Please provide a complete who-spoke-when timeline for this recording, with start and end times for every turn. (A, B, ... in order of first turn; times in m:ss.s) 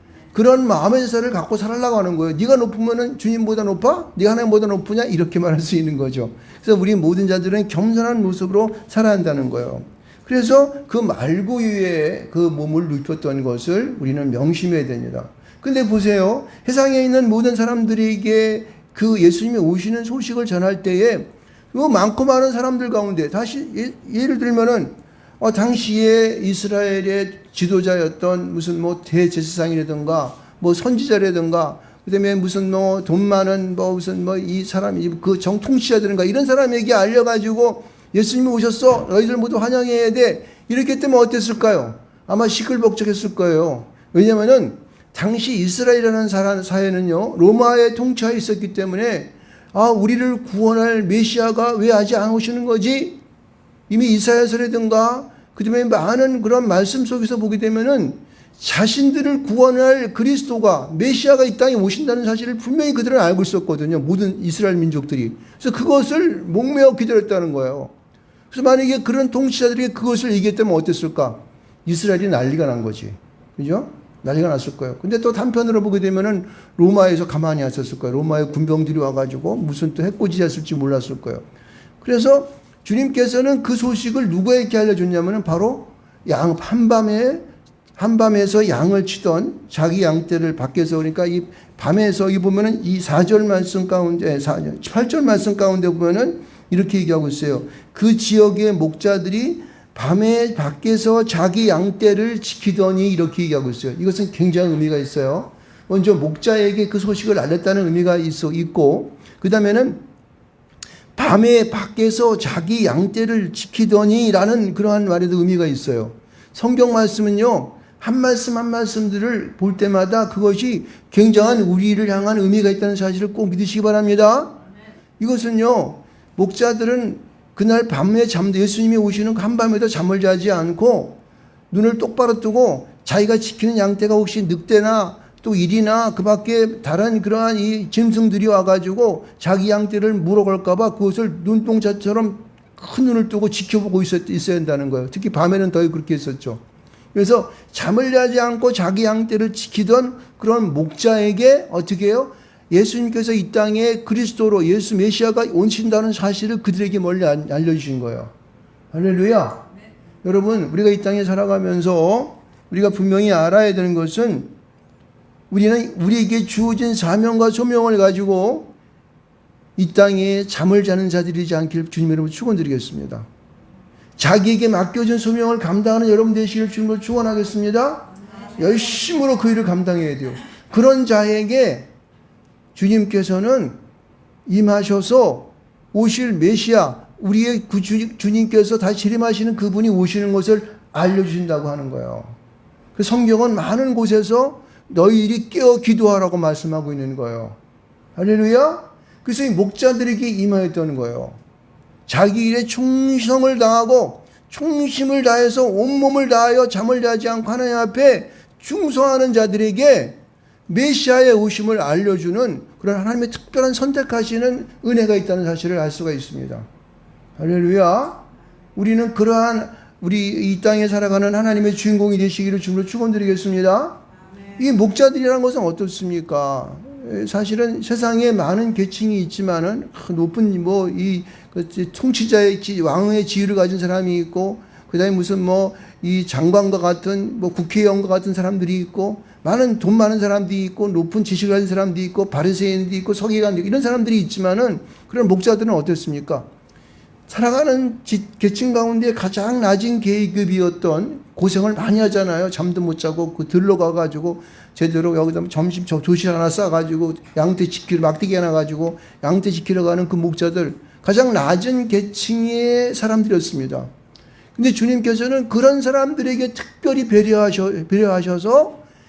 0:00.3-0:53.2 A
0:53.9-1:07.9 A
1:08.5-1:21.4 A
1:22.0-1:27.5 A
1:28.0-1:50.0 A
1:51.2-2:04.6 A
2:05.2-2:11.2 A
2:11.7-2:26.6 A
2:27.1-2:38.3 A
2:38.9-2:39.7 A
2:40.2-2:44.5 A
2:45.5-2:48.7 A
2:49.8-2:53.3 A
2:54.2-3:01.9 A
3:02.8-3:03.8 A
3:04.5-3:12.4 A
3:13.0-3:17.6 A
3:18.2-3:21.4 A
3:22.1-3:36.6 A
3:37.4-4:06.5 A
4:07.3-4:23.9 A
4:24.6-4:28.8 A